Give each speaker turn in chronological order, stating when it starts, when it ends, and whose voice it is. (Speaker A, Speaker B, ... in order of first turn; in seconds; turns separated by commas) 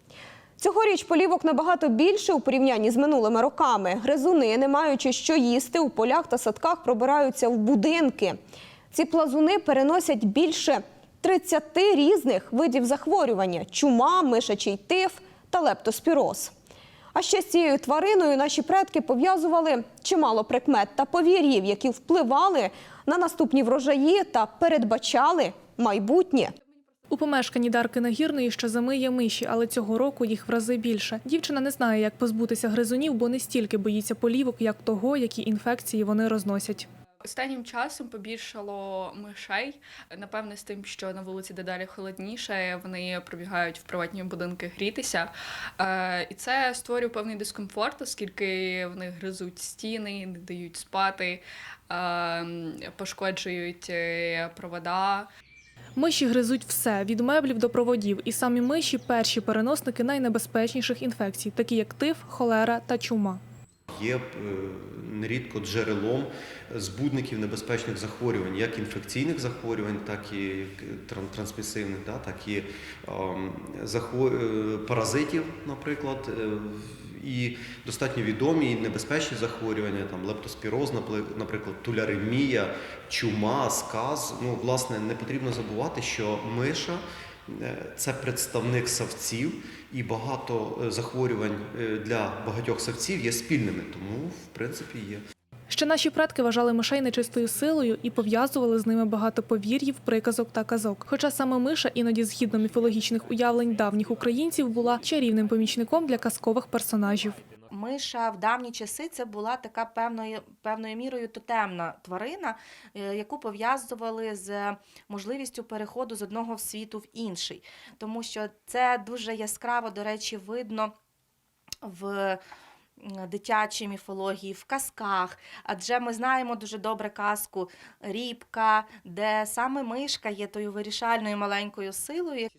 Speaker A: 0.6-8.4, Speaker A: 8.9-16.5, Speaker A: 17.1-26.5, Speaker B: 27.1-36.9, Speaker C: 37.2-55.3, Speaker B: 56.0-63.4, Speaker D: 63.9-95.2, Speaker B: 95.7-107.4, Speaker E: 107.7-120.9, Speaker E: 121.8-122.4, Speaker E: 123.0-132.5